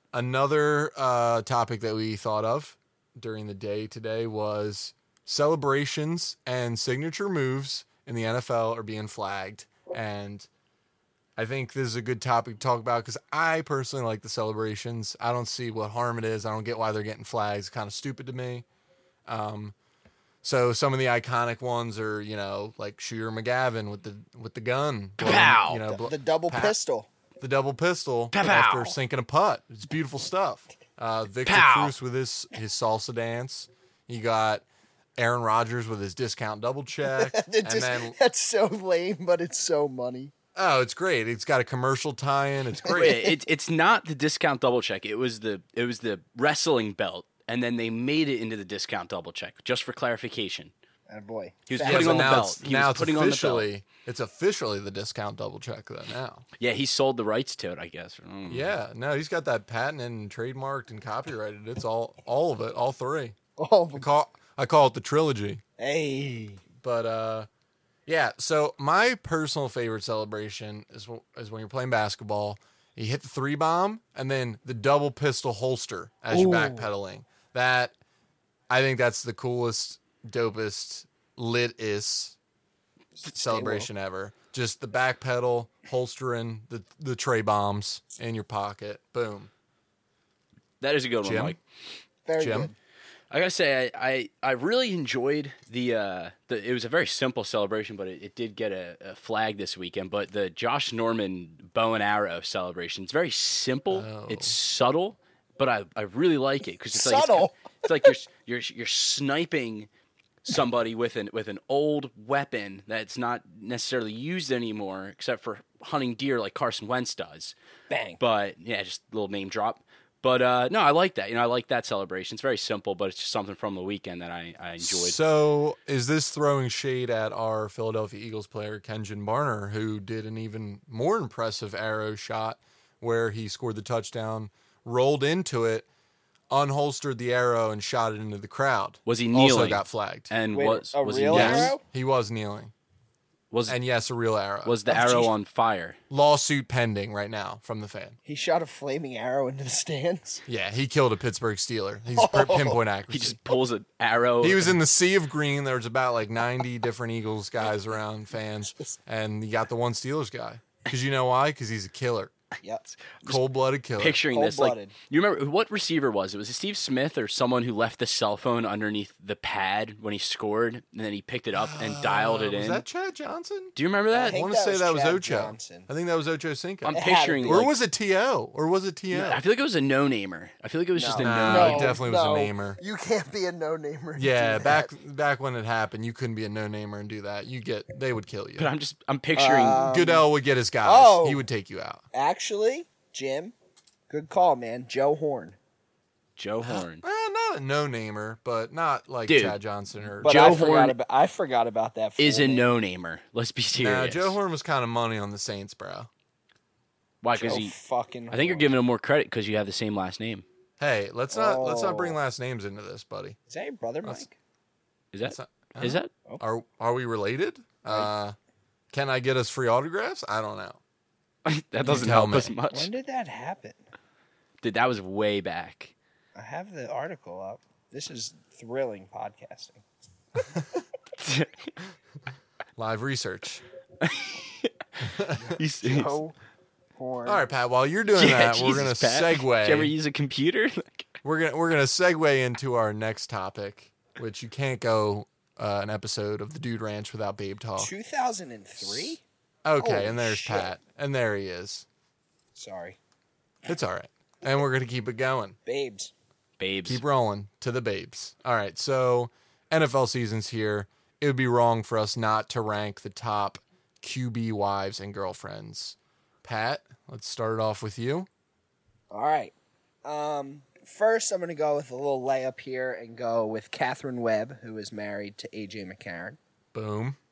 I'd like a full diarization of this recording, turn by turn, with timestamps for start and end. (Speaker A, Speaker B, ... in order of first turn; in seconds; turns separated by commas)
Speaker A: 0.1-10.5, Speaker A: 11.4-18.6, Speaker A: 19.2-19.7, Speaker A: 20.4-26.8, Speaker B: 25.2-25.8, Speaker C: 25.9-27.1, Speaker A: 27.4-34.6, Speaker B: 28.3-28.9, Speaker B: 31.4-31.9, Speaker A: 35.2-38.1, Speaker C: 37.1-40.3, Speaker A: 40.5-43.3, Speaker B: 42.9-50.7, Speaker C: 51.1-52.4, Speaker B: 51.7-53.6, Speaker A: 51.8-56.5, Speaker B: 56.6-58.7, Speaker A: 58.5-63.4, Speaker C: 63.6-64.0, Speaker A: 63.9-65.6, Speaker C: 65.8-66.6, Speaker A: 66.8-67.5, Speaker A: 68.0-77.9, Speaker C: 76.3-76.9, Speaker A: 78.7-82.3, Speaker A: 83.3-89.5, Speaker C: 83.3-83.9, Speaker B: 90.8-91.6, Speaker A: 91.2-91.6, Speaker C: 92.2-92.7, Speaker A: 92.4-92.7, Speaker B: 93.3-109.9, Speaker A: 103.9-104.5, Speaker C: 106.9-108.1, Speaker B: 110.4-117.5, Speaker C: 117.9-118.2, Speaker B: 118.2-125.2, Speaker A: 124.8-135.9, Speaker A: 136.5-140.3, Speaker B: 139.1-141.7, Speaker C: 140.5-141.8, Speaker A: 141.3-142.7, Speaker B: 143.5-143.8, Speaker A: 143.7-144.8, Speaker B: 144.6-146.0, Speaker C: 144.9-145.3, Speaker A: 146.1-148.2, Speaker C: 148.2-150.4, Speaker A: 150.5-153.4, Speaker C: 152.1-152.8, Speaker B: 153.1-154.8, Speaker A: 154.4-162.3, Speaker B: 163.1-163.4, Speaker A: 163.2-164.2, Speaker B: 164.0-172.8, Speaker C: 164.3-164.9, Speaker A: 171.5-179.4, Speaker B: 173.8-174.4, Speaker C: 174.1-175.9, Speaker B: 176.8-177.7, Speaker C: 176.9-177.6, Speaker B: 179.1-182.0, Speaker C: 180.9-184.9, Speaker A: 181.2-182.8, Speaker A: 184.2-188.7, Speaker B: 188.6-189.9, Speaker C: 189.3-190.3, Speaker A: 189.8-192.0, Speaker C: 190.8-191.5, Speaker C: 192.1-193.5, Speaker C: 194.1-195.6, Speaker B: 196.4-197.0, Speaker A: 196.6-200.6, Speaker B: 199.3-199.6, Speaker B: 200.2-200.9, Speaker C: 200.2-202.6, Speaker B: 202.2-204.4, Speaker A: 203.8-206.1, Speaker B: 207.2-207.7, Speaker C: 207.3-208.7, Speaker B: 208.3-210.4, Speaker A: 210.8-213.4, Speaker C: 211.3-212.2, Speaker C: 213.5-214.3, Speaker B: 215.1-216.1, Speaker A: 215.2-218.3, Speaker A: 218.9-220.8, Speaker B: 221.4-222.9, Speaker A: 221.8-222.5, Speaker C: 222.7-223.8, Speaker B: 224.6-225.9, Speaker C: 226.3-229.8, Speaker B: 231.2-231.5, Speaker A: 232.8-233.6, Speaker B: 234.0-234.7, Speaker A: 235.0-235.6, Speaker B: 235.6-236.2, Speaker C: 235.8-236.3, Speaker C: 236.9-237.4, Speaker A: 237.2-239.9, Speaker B: 238.1-241.1, Speaker A: 241.2-247.9, Speaker C: 247.8-249.2, Speaker A: 248.8-251.8, Speaker C: 249.8-250.8, Speaker C: 252.5-253.0, Speaker A: 253.7-255.6, Speaker C: 255.7-256.1, Speaker B: 256.6-257.0, Speaker A: 256.9-268.3, Speaker C: 269.1-276.4, Speaker A: 276.7-277.2